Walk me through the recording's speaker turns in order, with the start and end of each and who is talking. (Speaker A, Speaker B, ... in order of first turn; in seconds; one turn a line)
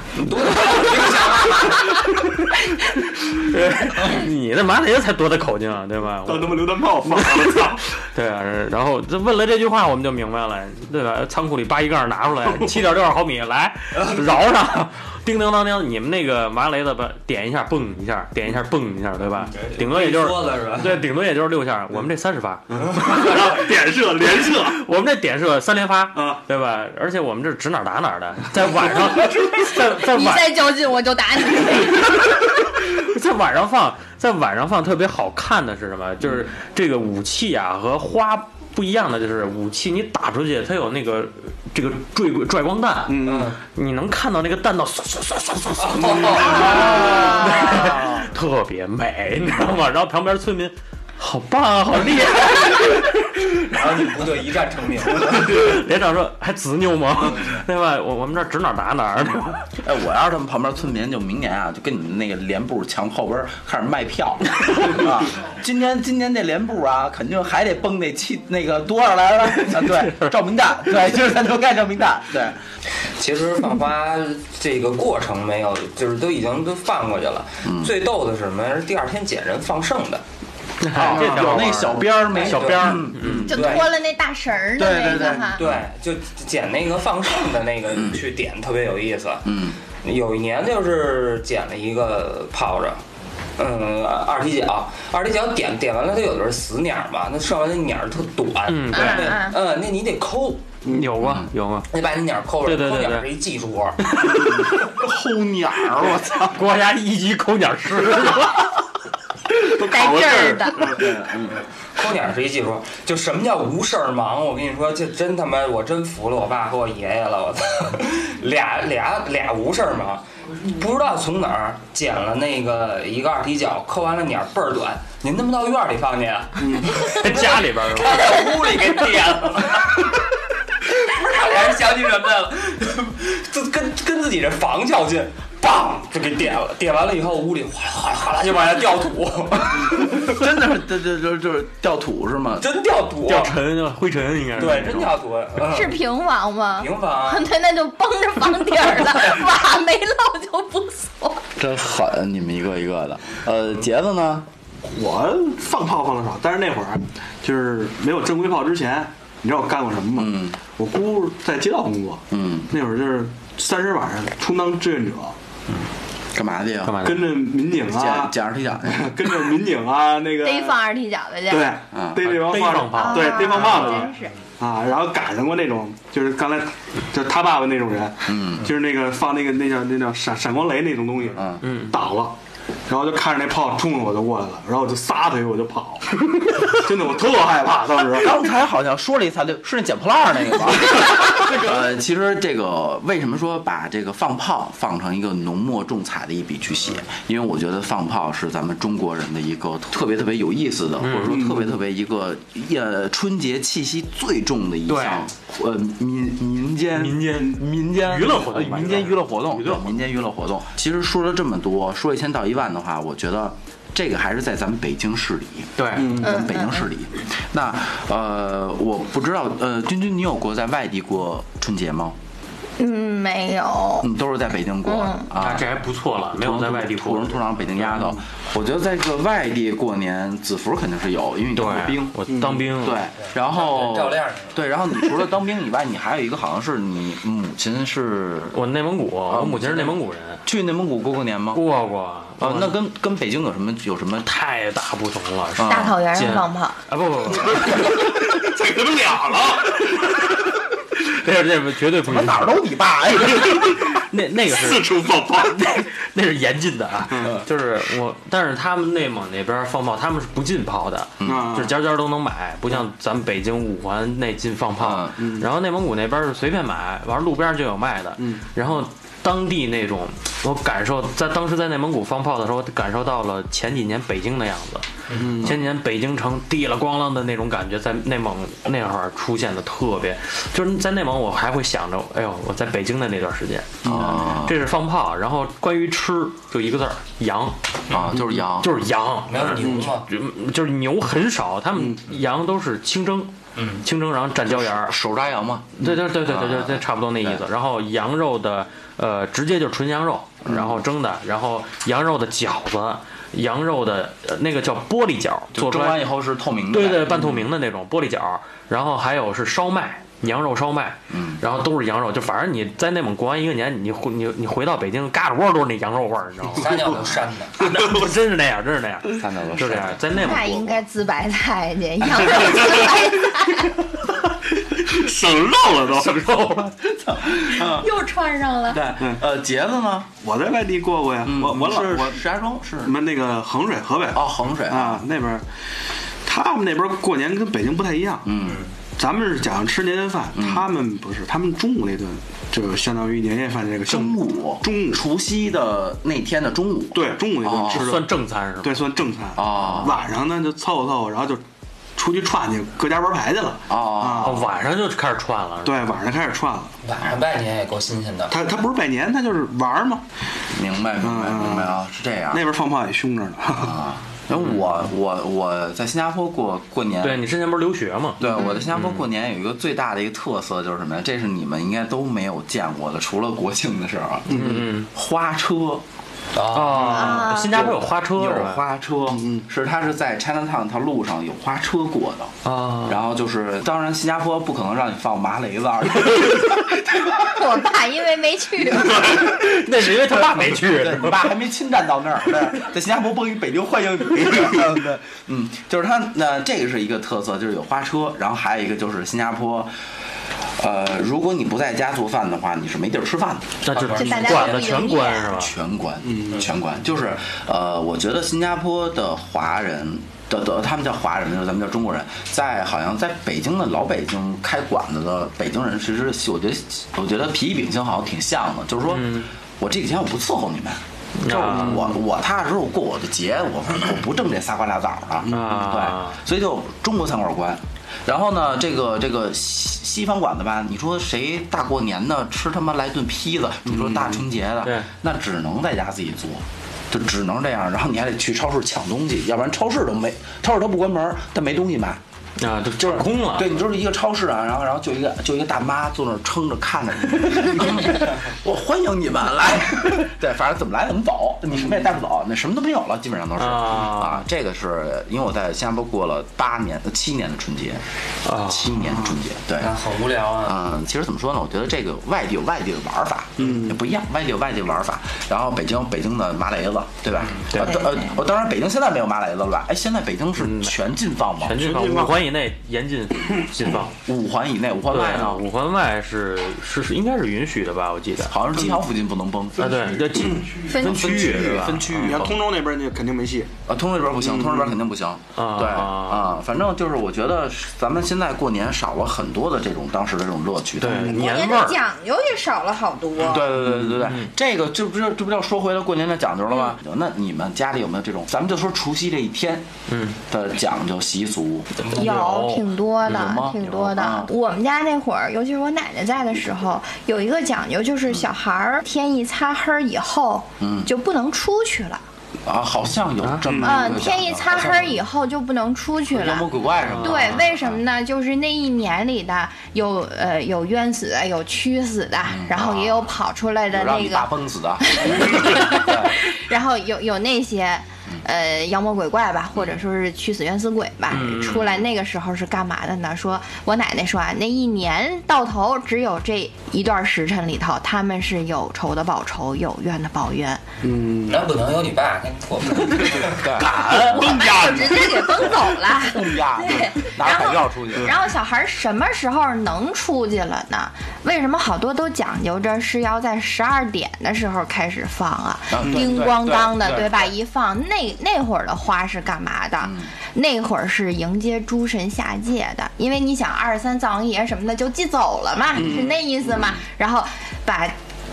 Speaker A: 0.2-2.1
Speaker B: 2.1-23.5
Speaker C: 6.2-7.8
Speaker A: 14.0-14.2
Speaker A: 19.5-21.0
Speaker C: 22.7-24.8
Speaker B: 24.4-30.6
Speaker C: 26.1-26.4
Speaker D: 29.9-32.1
Speaker B: 32.1-53.4
Speaker C: 43.0-43.5
Speaker A: 43.2-43.6
Speaker A: 45.8-48.1
Speaker A: 53.5-55.6
Speaker B: 55.1-59.7
Speaker E: 59.8-72.6
Speaker B: 69.9-70.3
Speaker A: 73.2-80.2
Speaker E: 77.6-77.9
Speaker B: 80.8-83.8
Speaker E: 80.9-83.7
Speaker C: 81.0-81.6
Speaker A: 82.3-83.9
Speaker D: 83.5-85.6
Speaker E: 84.8-85.8
Speaker A: 85.1-93.0
Speaker E: 87.9-88.2
Speaker E: 89.4-89.8
Speaker A: 93.6-100.7
Speaker B: 98.7-99.4
Speaker D: 98.9-99.5
Speaker C: 100.8-101.2
Speaker B: 100.9-101.9
Speaker E: 101.2-101.5
Speaker A: 101.9-104.1
Speaker B: 102.6-103.3
Speaker B: 104.0-104.5
Speaker E: 104.7-106.6
Speaker B: 106.5-108.8
Speaker C: 109.6-111.2
Speaker D: 109.8-111.0
Speaker E: 110.9-111.6
Speaker A: 111.9-130.1
Speaker C: 126.6-126.9
Speaker B: 127.0-128.8
Speaker A: 130.9-140.3
Speaker E: 140.1-142.7
Speaker A: 142.6-143.6
Speaker B: 143.2-145.1
Speaker A: 144.6-146.0
Speaker D: 145.6-151.4
Speaker A: 146.8-147.5
Speaker E: 151.6-154.5
Speaker C: 154.8-165.3
Speaker E: 160.2-160.6
Speaker E: 162.3-162.7
Speaker E: 166.3-167.0
Speaker B: 166.8-167.3
Speaker C: 167.0-170.8
Speaker E: 167.9-169.3
Speaker D: 170.4-171.7
Speaker C: 171.5-182.3
Speaker E: 171.9-172.2
Speaker B: 172.2-174.1
Speaker D: 172.9-174.3
Speaker E: 178.2-178.7
Speaker E: 181.3-181.6
Speaker B: 181.6-181.9
Speaker C: 182.9-188.4
Speaker E: 188.2-222.2
Speaker B: 201.0-201.4
Speaker C: 201.3-201.7
Speaker B: 204.9-205.2
Speaker B: 207.0-210.0
Speaker B: 215.8-216.2
Speaker C: 215.9-216.4
Speaker D: 216.2-216.8
Speaker D: 222.8-224.1
Speaker E: 224.0-225.7
Speaker D: 224.8-225.3
Speaker B: 225.3-228.1
Speaker E: 226.3-232.2
Speaker B: 231.5-233.0
Speaker C: 232.2-232.7
Speaker E: 232.8-238.6
Speaker A: 233.2-234.6
Speaker B: 238.5-240.4
Speaker E: 239.3-241.6
Speaker B: 241.5-242.8
Speaker E: 242.4-244.3
Speaker B: 244.2-248.1
Speaker E: 245.5-246.0
Speaker D: 245.7-246.8
Speaker C: 247.6-250.0
Speaker B: 249.8-252.6
Speaker E: 252.0-253.8
Speaker B: 253.3-274.9
Speaker C: 254.4-255.8
Speaker C: 257.1-257.4
Speaker E: 261.2-261.5
Speaker C: 261.2-261.8
Speaker E: 264.8-265.1
Speaker C: 265.2-265.5
Speaker C: 268.2-268.5
Speaker C: 275.2-275.6
Speaker B: 275.4-287.6
Speaker E: 283.8-284.6
Speaker C: 283.9-284.1
Speaker E: 287.9-288.7
Speaker B: 288.6-293.3
Speaker A: 289.3-290.1
Speaker C: 289.6-289.9
Speaker C: 291.7-292.1
Speaker A: 293.6-293.8
Speaker B: 293.8-294.9
Speaker E: 294.5-297.4
Speaker B: 295.8-306.1
Speaker E: 300.4-300.8
Speaker E: 305.5-307.4
Speaker B: 306.7-316.9
Speaker E: 311.1-311.4
Speaker A: 316.5-317.8
Speaker B: 317.6-320.8
Speaker C: 317.6-318.1
Speaker E: 319.0-320.6
Speaker D: 320.1-323.8
Speaker C: 324.6-326.5
Speaker B: 325.8-326.9
Speaker E: 326.9-327.9
Speaker D: 327.5-328.8
Speaker E: 328.7-330.1
Speaker C: 329.0-329.2
Speaker C: 330.2-332.2
Speaker E: 331.2-333.0
Speaker C: 332.8-335.4
Speaker E: 334.1-335.0
Speaker C: 336.2-338.3
Speaker E: 338.2-338.6
Speaker A: 338.4-338.7
Speaker C: 339.0-345.0
Speaker E: 340.3-340.7
Speaker E: 343.9-347.9
Speaker C: 346.9-351.4
Speaker B: 347.7-348.9
Speaker E: 349.4-350.0
Speaker C: 351.9-354.5
Speaker E: 353.7-354.5
Speaker B: 354.2-355.8
Speaker C: 355.6-356.7
Speaker A: 356.8-358.3
Speaker C: 358.3-360.0
Speaker E: 360.5-362.4
Speaker C: 361.0-361.8
Speaker C: 362.3-363.8
Speaker E: 363.5-367.2
Speaker B: 367.0-369.0
Speaker E: 368.2-375.8
Speaker C: 374.3-374.7
Speaker B: 374.3-374.9
Speaker A: 376.3-377.3
Speaker B: 376.5-378.6
Speaker D: 376.9-377.8
Speaker E: 377.5-387.5
Speaker C: 379.1-379.4
Speaker B: 382.4-383.0
Speaker D: 387.2-389.2
Speaker B: 389.0-391.3
Speaker E: 390.1-399.7
Speaker E: 400.6-403.6
Speaker B: 403.6-405.5
Speaker A: 403.7-404.7
Speaker D: 403.9-405.3
Speaker E: 405.3-442.0
Speaker C: 406.0-406.4
Speaker B: 418.9-419.3
Speaker B: 421.2-421.8
Speaker C: 421.5-421.9
Speaker C: 425.3-425.7
Speaker B: 425.3-426.2
Speaker C: 433.8-434.1
Speaker B: 434.6-434.9
Speaker B: 442.4-443.6
Speaker E: 442.8-457.8
Speaker B: 453.4-454.2
Speaker B: 458.2-458.8
Speaker E: 458.4-459.8
Speaker A: 459.6-460.6
Speaker E: 460.4-471.6
Speaker C: 463.4-463.8
Speaker B: 467.5-467.8
Speaker B: 470.4-470.7
Speaker B: 471.4-474.0
Speaker C: 471.6-472.3
Speaker C: 473.3-473.7
Speaker E: 474.0-475.4
Speaker B: 474.9-478.4
Speaker E: 478.3-480.0
Speaker B: 479.6-482.2
Speaker C: 480.2-480.6
Speaker D: 480.6-481.3
Speaker E: 480.7-482.4
Speaker C: 481.9-483.5
Speaker E: 483.7-491.1
Speaker C: 484.2-484.7
Speaker B: 485.4-486.3
Speaker B: 490.8-491.8
Speaker C: 490.9-491.2
Speaker D: 491.1-493.5
Speaker E: 493.2-499.7
Speaker B: 493.8-494.3
Speaker B: 499.9-500.2
Speaker E: 500.2-501.7
Speaker A: 501.8-502.1
Speaker B: 501.9-503.9
Speaker D: 501.9-512.0
Speaker E: 503.1-504.3
Speaker E: 510.6-510.9
Speaker E: 512.4-515.0
Speaker C: 513.4-513.9
Speaker D: 513.6-524.3
Speaker E: 516.1-517.8
Speaker B: 516.8-517.4
Speaker E: 522.3-523.1
Speaker E: 523.7-526.1
Speaker D: 524.8-540.6
Speaker E: 531.1-531.8
Speaker B: 531.2-531.5
Speaker C: 540.8-541.4
Speaker A: 541.3-543.5
Speaker C: 542.9-545.6
Speaker E: 543.4-544.2
Speaker D: 543.9-567.9
Speaker E: 546.0-548.1
Speaker C: 546.6-547.0
Speaker E: 555.7-557.3
Speaker C: 555.8-556.2
Speaker E: 559.8-560.1
Speaker E: 565.7-566.8
Speaker C: 565.8-566.1